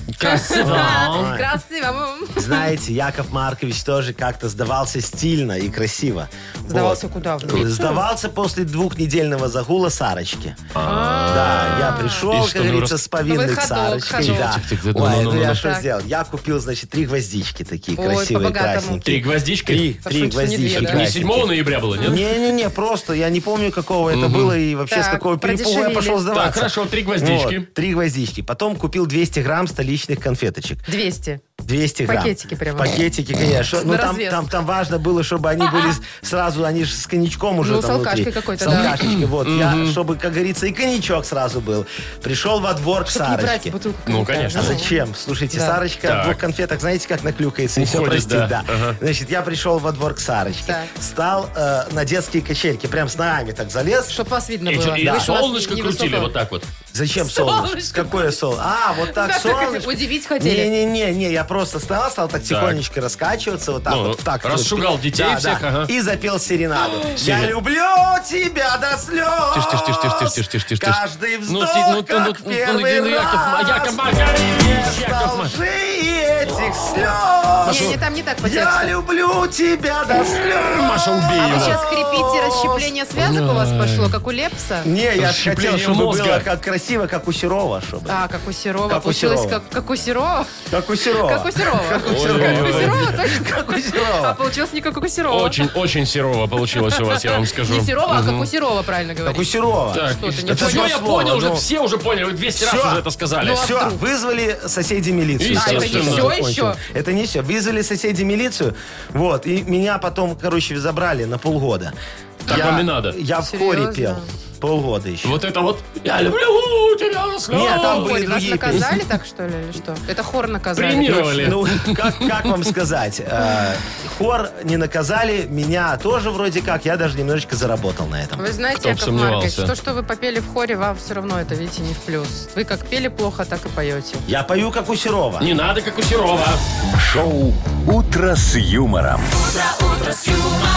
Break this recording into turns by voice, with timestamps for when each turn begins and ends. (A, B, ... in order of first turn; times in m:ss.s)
0:00.1-0:01.4 A
0:00.2-0:02.7 B
0:00.6-0:01.5 C
0:02.3-0:10.7 C
0:06.7-0:08.0 B
0:10.7-0:13.0 A
0:10.8-0:12.3 B
0:11.3-0:30.9 C
0:13.3-0:14.6 B
0:14.2-0:15.6 A
0:15.5-0:15.8 B
0:18.0-0:19.0 B
0:19.0-0:19.9 A
0:20.0-0:21.0 B
0:20.7-0:22.3 A
0:24.1-0:24.6 A
0:24.9-0:26.2 B
0:26.3-0:27.7 A
0:30.9-0:31.4 B
0:31.6-0:43.7 C
0:32.0-0:33.0 B
0:33.8-0:34.5 B
0:35.6-0:35.9 B
0:37.6-0:38.9 B
0:38.6-0:40.0 A
0:43.1-0:44.9 B
0:44.1-0:44.8 A
0:44.5-0:54.2 C
0:45.5-0:45.8 B
0:46.0-0:46.4 A
0:47.8-0:49.0 A
0:50.6-0:50.9 B
0:54.1-0:56.3 B
0:54.6-0:56.7 A
0:55.0-0:55.3 C
0:56.9-1:22.9 C
0:57.2-0:58.3 B
0:59.0-1:00.7 B
1:02.5-1:02.8 A
1:03.9-1:05.9 A
1:07.1-1:07.5 A
1:09.5-1:15.5 A
1:17.6-1:18.0 A
1:17.6-1:18.9 B
1:20.3-1:21.8 A
1:21.4-1:24.9 B
1:23.2-1:24.2 A
1:24.8-1:28.2 C
1:25.2-1:26.4 A
1:28.1-1:30.6 B
1:28.9-1:29.6 C
1:30.7-1:34.4 C
1:31.2-1:35.6 B
1:32.0-1:33.1 A
1:35.3-1:38.5 A
1:36.8-1:39.5 B
1:39.2-1:41.6 C
1:39.9-1:43.7 A
1:40.0-1:40.9 B
1:42.6-1:55.4 C
1:43.4-1:44.0 B
1:45.4-1:46.3 A
1:45.5-1:46.8 B
1:52.5-1:52.8 B
1:52.5-1:53.2 A
1:53.4-1:54.3 B
1:55.2-1:58.8 A
1:57.5-1:58.9 C
1:57.7-2:01.6 B
2:00.8-2:02.6 A
2:01.4-2:08.4 C
2:08.4-2:14.3 B
2:08.8-2:09.7 A
2:14.3-2:15.5 C
2:15.4-2:16.6 A
2:17.0-2:19.4 D